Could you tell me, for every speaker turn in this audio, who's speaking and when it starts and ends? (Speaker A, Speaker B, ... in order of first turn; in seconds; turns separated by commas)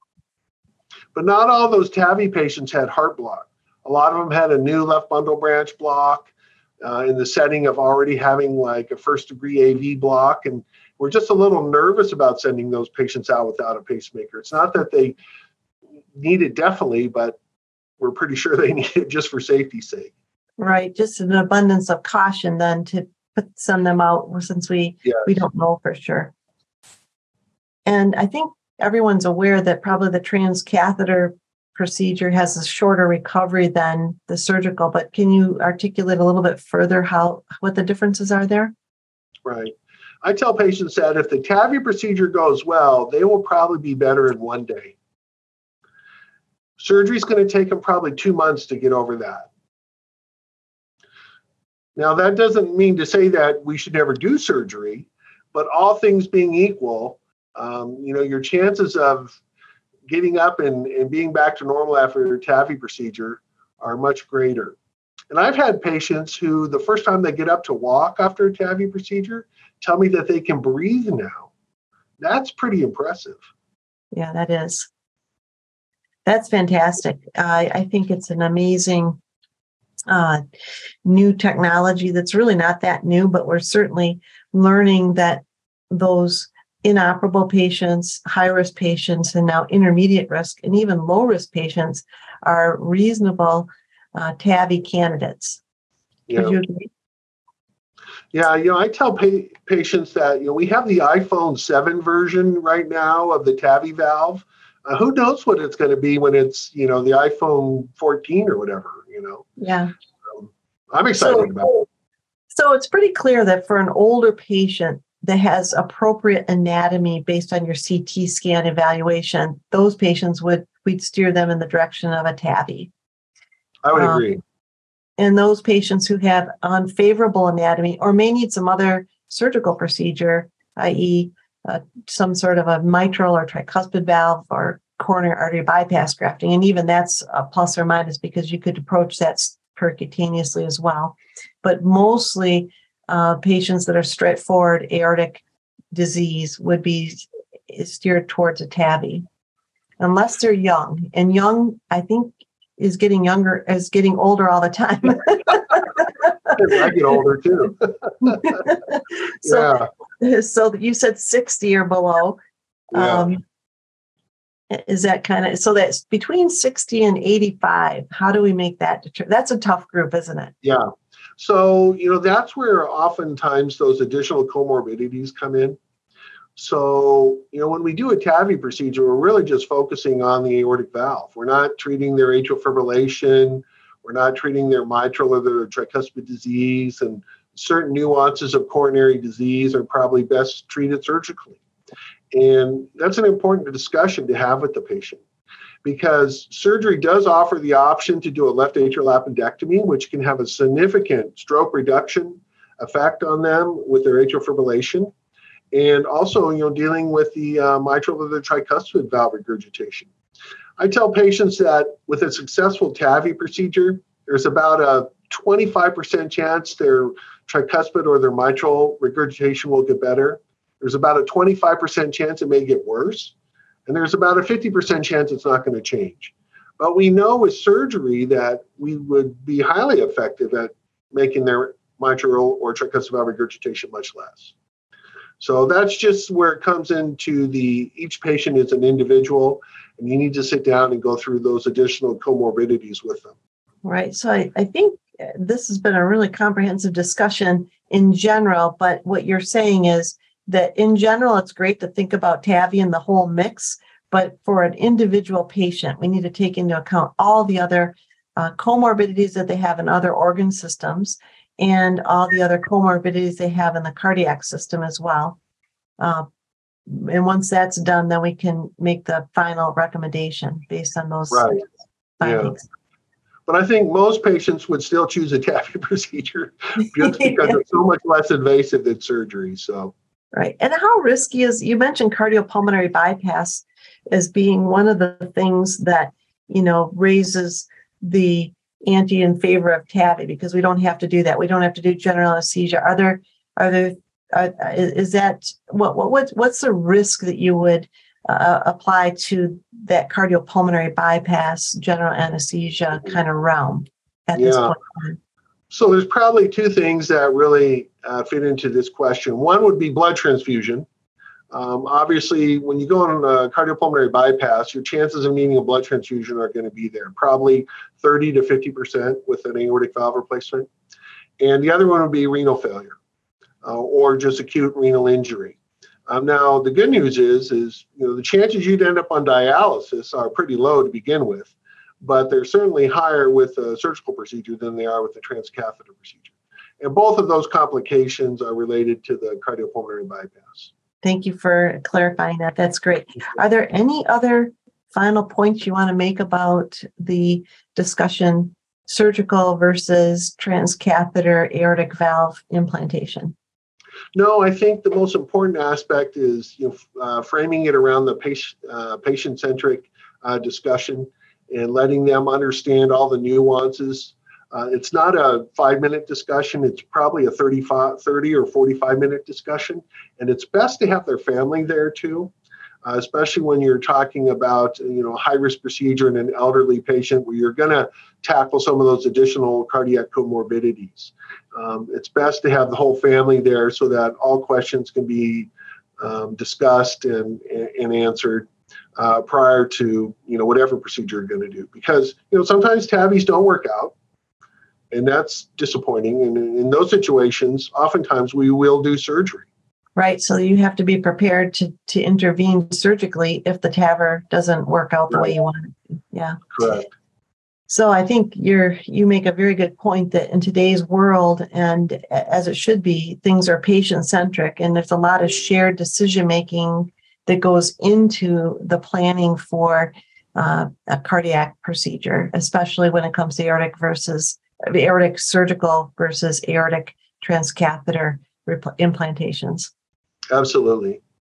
Speaker A: 1.1-6.3, Speaker A: 6.8-15.2, Speaker A: 16.2-17.4, Speaker A: 18.0-20.1, Speaker B: 20.6-26.3, Speaker A: 25.1-25.4, Speaker B: 27.9-38.7, Speaker A: 39.5-45.0, Speaker A: 46.8-49.5, Speaker A: 52.0-59.4, Speaker A: 60.1-64.8, Speaker A: 65.3-71.5, Speaker A: 72.2-73.4, Speaker B: 74.1-74.9, Speaker B: 76.2-79.2, Speaker B: 80.1-80.4, Speaker B: 81.0-95.6, Speaker A: 96.3-96.6, Speaker B: 96.3-96.9, Speaker A: 98.3-109.5, Speaker B: 109.6-109.9, Speaker A: 110.3-111.8, Speaker B: 111.2-111.8, Speaker B: 112.5-122.9, Speaker A: 123.8-124.4, Speaker B: 124.0-124.3, Speaker B: 125.2-149.2, Speaker B: 150.0-156.3, Speaker A: 156.6-158.5, Speaker B: 158.2-162.4, Speaker A: 159.4-159.9, Speaker B: 162.9-163.4, Speaker A: 162.9-163.3, Speaker B: 164.7-170.5, Speaker A: 170.6-175.8, Speaker A: 176.6-191.6, Speaker A: 192.3-195.2, Speaker A: 195.8-205.1, Speaker A: 205.7-210.1, Speaker A: 210.8-223.3, Speaker A: 223.9-234.5, Speaker A: 235.4-243.3, Speaker B: 243.8-265.4, Speaker B: 266.0-266.3, Speaker B: 266.9-272.6, Speaker A: 271.3-271.6, Speaker A: 272.2-272.6, Speaker A: 273.5-279.9, Speaker B: 280.3-305.2, Speaker A: 304.4-304.8, Speaker A: 305.7-310.9, Speaker A: 311.5-320.7, Speaker A: 321.4-323.0, Speaker A: 323.6-340.7, Speaker B: 341.0-353.4, Speaker A: 354.1-372.3, Speaker A: 372.8-393.9, Speaker A: 394.9-399.5, Speaker B: 400.0-406.8, Speaker A: 406.5-406.9, Speaker B: 407.7-429.7, Speaker A: 430.3-431.0